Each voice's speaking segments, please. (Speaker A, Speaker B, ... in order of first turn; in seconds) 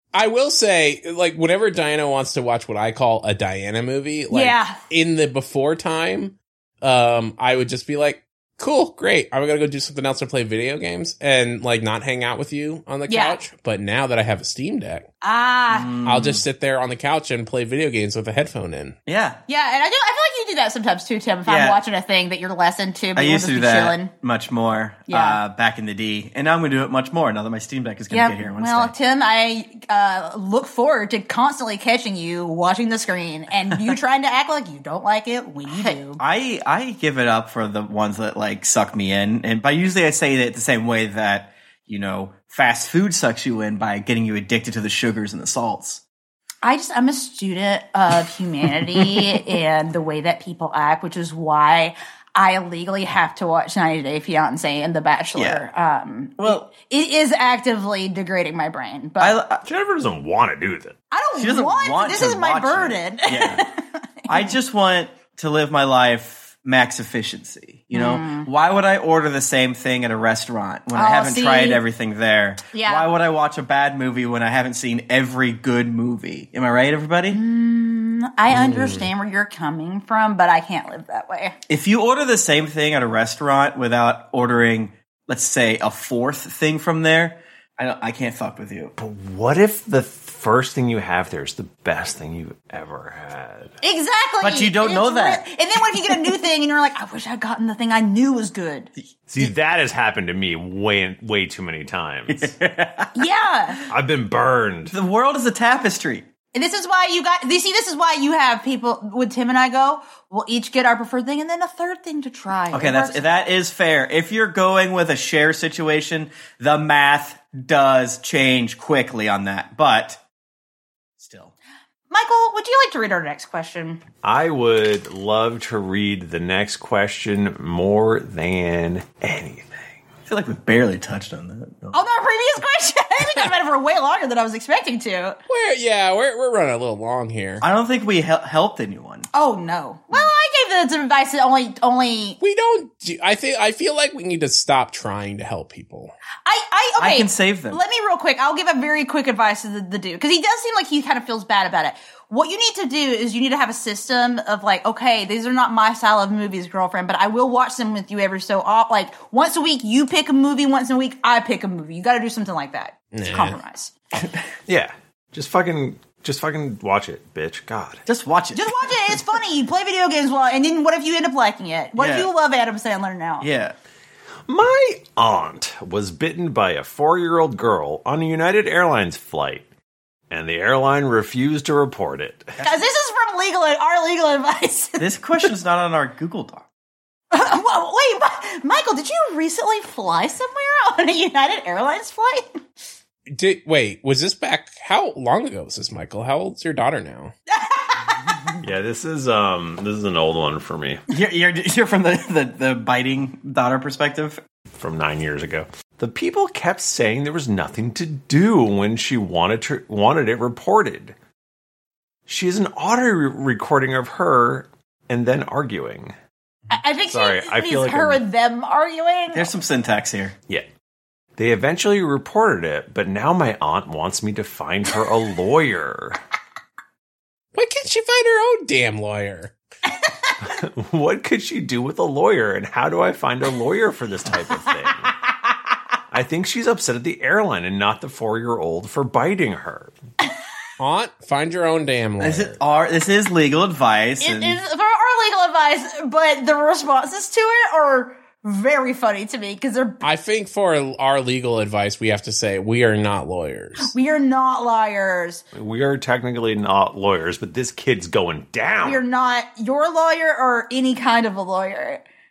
Speaker A: 0.1-15.1, 16.0-18.9, 135.5-137.6, 142.4-146.1, 163.1-163.6, 193.3-197.3, 227.5-229.5, 240.8-242.6, 250.0-253.9
Speaker B: 4.3-4.8, 13.1-13.4, 15.2-15.9, 19.5-24.1, 25.1-25.4, 28.1-36.2, 46.6-59.4, 61.1-64.5, 67.9-68.5, 70.9-71.8, 72.7-73.1, 77.3-81.5, 93.8-98.9, 103.1-103.8, 106.5-113.3, 122.1-124.0, 131.9-135.4, 139.3-142.4, 146.4-163.9, 168.5-173.5, 182.6-185.1, 187.3-192.6, 197.5-198.3, 216.7-219.5, 230.0-230.3, 244.2-250.0, 253.8-255.4, 258.8-262.0
Speaker C: 15.7-16.4, 19.1-19.4, 21.4-21.8, 23.1-28.9, 35.7-46.0, 48.9-49.3, 55.3-55.6, 56.4-56.7, 59.2-59.6, 61.4-63.6, 64.3-77.4, 78.6-79.0, 81.7-88.9, 94.4-95.4, 96.0-96.3, 102.3-103.2, 104.9-106.2, 112.7-120.2, 121.2-121.5, 130.3-132.0, 137.6-139.3, 147.0-147.8, 168.1-169.2, 171.9-172.3, 173.4-173.7, 182.6-182.8, 185.0-186.6, 201.1-204.4, 219.3-220.3, 242.2-244.6
Speaker D: 59.6-61.0, 89.0-93.8, 99.3-102.5, 103.9-104.9, 124.2-130.0, 164.7-168.0, 174.5-179.7, 180.3-182.6, 198.6-201.0, 204.8-211.1, 212.3-216.1, 217.1-218.2, 221.4-226.2, 230.4-235.1, 236.1-240.0, 255.5-259.0